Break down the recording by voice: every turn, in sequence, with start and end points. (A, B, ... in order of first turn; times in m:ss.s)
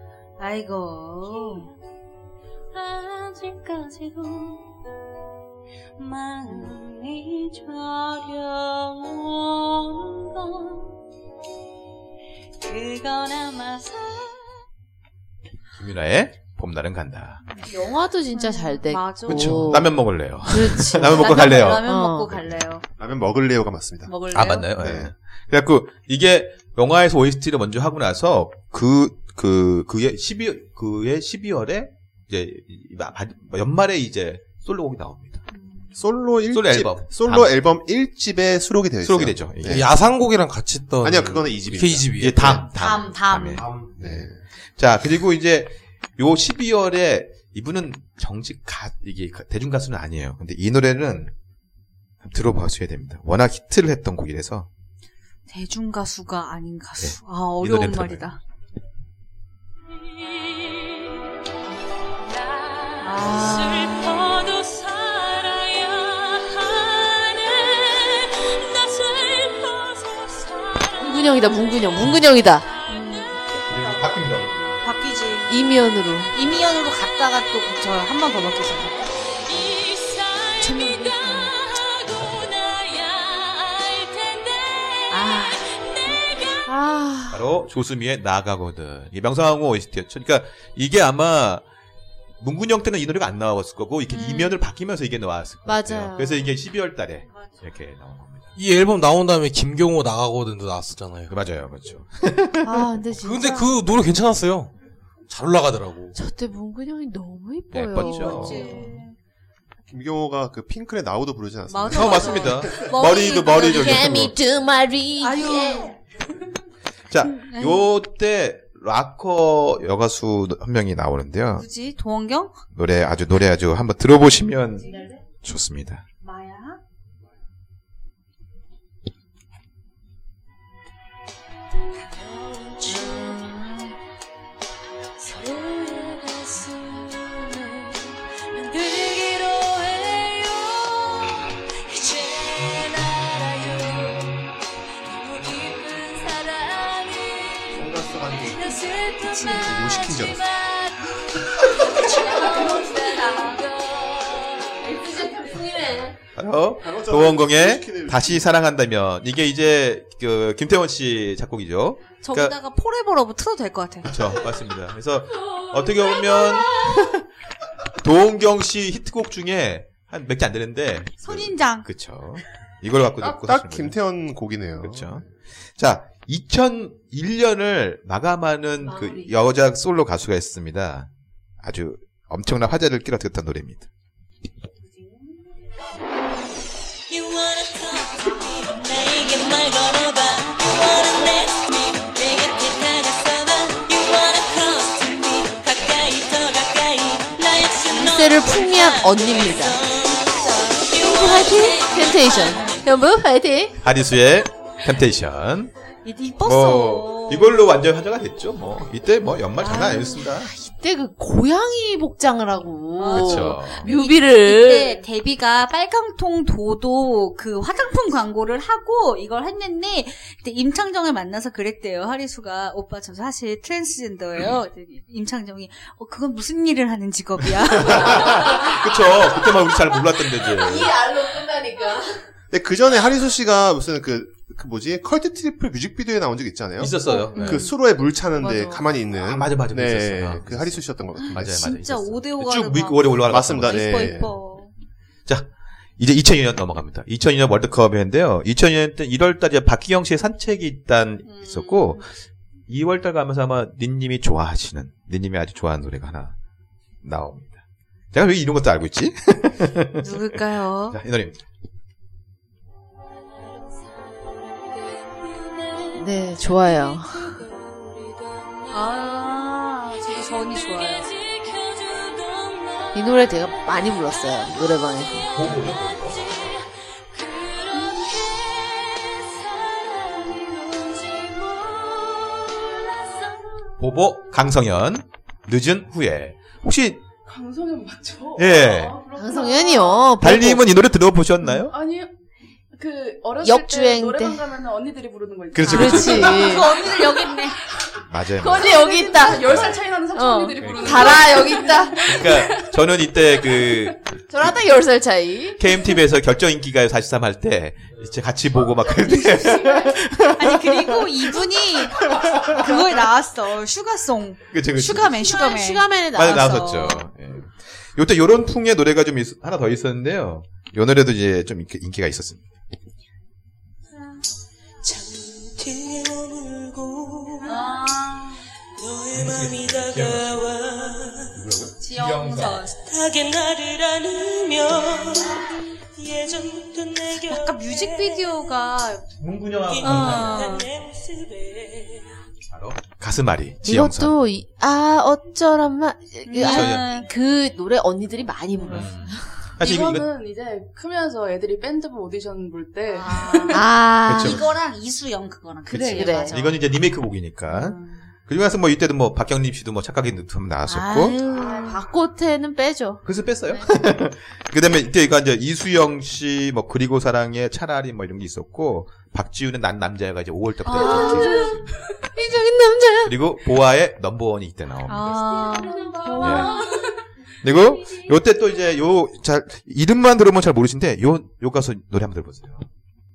0:00.4-0:01.7 A
0:01.3-0:01.7 B
0:02.7-0:04.8 B
0:06.0-0:11.0 B
0:06.4-0:06.8 A
0:12.6-0:14.7 B
0:15.8-0:17.4 C
0:17.5-0:19.8 A
0:17.6-0:22.4 D
0:19.3-0:21.9 C
0:20.9-0:22.8 A
0:23.0-0:24.1 E
0:24.1-0:24.7 A
0:24.3-0:35.4 C
0:24.8-0:25.1 E
0:35.5-0:35.9 A
0:36.0-0:39.9 E
0:36.5-0:37.5 C
0:39.0-0:39.9 C
0:39.7-0:42.6 F
0:41.0-0:42.6 E
0:42.2-0:44.2 C
0:42.8-0:43.7 A
0:43.6-0:44.0 F
0:44.0-0:44.4 E
0:44.8-0:51.3 C
0:52.2-0:54.7 C
0:55.5-0:58.4 A
0:57.0-0:58.3 C
0:59.9-1:01.3 B
1:02.1-1:11.9 B
1:03.0-1:04.3 A
1:11.0-1:12.7 D
1:12.9-1:13.4 A
1:13.7-1:14.8 C
1:14.8-1:15.6 A
1:15.5-1:16.3 D
1:16.3-1:19.1 A
1:19.4-1:26.6 B
1:20.6-1:21.5 D
1:22.1-1:22.5 C
1:25.1-1:25.7 A
1:26.7-1:27.5 D
1:27.3-1:31.6 C
1:32.4-1:38.5 C
1:34.1-1:34.6 A
1:35.7-1:36.5 D
1:38.6-1:41.4 F
1:41.3-1:42.9 C
1:42.6-1:43.8 D
1:43.2-1:44.7 F
1:45.3-1:46.2 F
1:46.2-1:48.9 D
1:47.7-1:49.0 C
1:48.0-1:49.2 A
1:49.9-1:52.9 E
1:51.7-1:54.1 A
1:51.9-1:54.4 C
1:53.5-1:55.9 D
1:55.2-1:56.0 A
1:57.1-2:01.7 C
1:57.2-1:57.9 A
2:01.6-2:02.6 A
2:02.7-2:04.9 C
2:05.4-2:06.0 C
2:06.2-2:06.8 A
2:12.0-2:13.6 B
2:12.8-2:14.0 A
2:15.2-2:35.1 B
2:27.7-2:28.9 E
2:29.3-2:29.8 A
2:29.5-2:30.5 E
2:32.0-2:33.6 A
2:32.1-2:33.0 D
2:33.7-2:36.2 D
2:36.4-2:42.6 C
2:36.8-2:38.5 E
2:42.2-2:44.1 A
2:44.1-2:47.3 C
2:45.5-2:46.8 B
2:48.0-2:54.0 C
2:51.2-2:51.9 A
2:53.2-2:55.2 E
2:54.8-2:55.2 C
2:55.8-3:01.1 C
2:58.8-2:59.3 D
3:01.6-3:03.9 C
3:07.1-3:22.9 B
3:17.9-3:19.9 D
3:20.2-3:20.9 A
3:20.9-3:23.8 D
3:22.6-3:22.8 A
3:23.8-3:25.7 C
3:26.0-3:27.6 A
3:26.4-3:30.5 C
3:29.6-3:30.2 A
3:29.6-3:35.0 D
3:33.0-3:48.8 A
3:33.1-3:33.9 C
3:47.6-3:51.0 C
3:48.4-3:49.5 D
3:50.4-3:52.2 D
3:52.5-4:01.6 E
3:56.8-3:57.6 C
3:57.1-3:57.8 A
3:58.4-3:58.9 A
3:59.2-4:04.2 C
4:01.2-4:04.7 A
4:03.3-4:04.4 E
4:05.3-4:12.1 C
4:11.3-4:12.0 A
4:12.7-4:16.4 C
4:17.0-4:17.6 C
4:18.1-4:20.4 C
4:20.0-4:21.0 A
4:20.9-4:21.4 C
4:23.5-4:26.4 B
4:26.0-4:27.4 D
4:27.3-4:29.4 B
4:28.7-4:31.1 A
4:30.0-4:33.8 B
4:32.9-4:35.4 D
4:35.1-4:43.7 B
4:35.3-4:36.6 C
4:43.8-4:47.0 C
4:47.2-4:50.2 G
4:48.4-4:49.0 C
4:49.1-4:50.7 D
4:50.2-4:51.7 C
4:51.7-4:52.1 G
4:52.8-4:57.5 G
4:53.4-4:54.4 D
4:55.5-4:56.5 C
4:55.7-4:56.7 D
4:56.1-4:57.6 A
4:58.1-4:59.8 C
4:58.3-5:04.0 G
4:58.4-5:02.2 D
5:00.6-5:01.4 C
5:02.0-5:04.1 C
5:04.3-5:05.6 D
5:05.6-5:11.4 C
5:08.9-5:09.9 G
5:10.3-5:17.0 A
5:11.9-5:13.0 C
5:14.5-5:15.4 C
5:15.2-5:16.7 D
5:16.2-5:22.5 C
5:24.8-5:27.8 B
5:27.4-5:28.4 A
5:28.8-5:31.4 B
5:29.1-5:30.5 C
5:31.3-5:32.6 C
5:31.8-5:32.8 A
5:32.7-5:38.6 B
5:37.3-5:39.1 A
5:39.2-5:40.5 C
5:39.7-5:42.2 B
5:39.8-5:40.7 A
5:42.5-5:44.2 C
5:43.6-5:49.3 D
5:46.2-5:47.1 A
5:46.4-5:46.8 C
5:48.7-5:50.1 C
5:49.6-5:53.6 G
5:52.9-5:56.4 A
5:53.5-5:54.4 D
5:54.1-5:54.4 C
5:55.7-5:56.6 D
5:55.7-6:01.2 C
5:57.5-5:58.0 A
6:00.7-6:03.7 D
6:00.9-6:01.8 A
6:03.0-6:11.8 C
6:10.7-6:11.5 D
6:10.7-6:11.4 A
6:12.1-6:13.2 D
6:13.0-6:15.4 C
6:14.9-6:16.6 A
6:15.4-6:16.6 B
6:16.2-6:16.5 C
6:16.2-6:16.6 G
6:17.4-6:22.7 C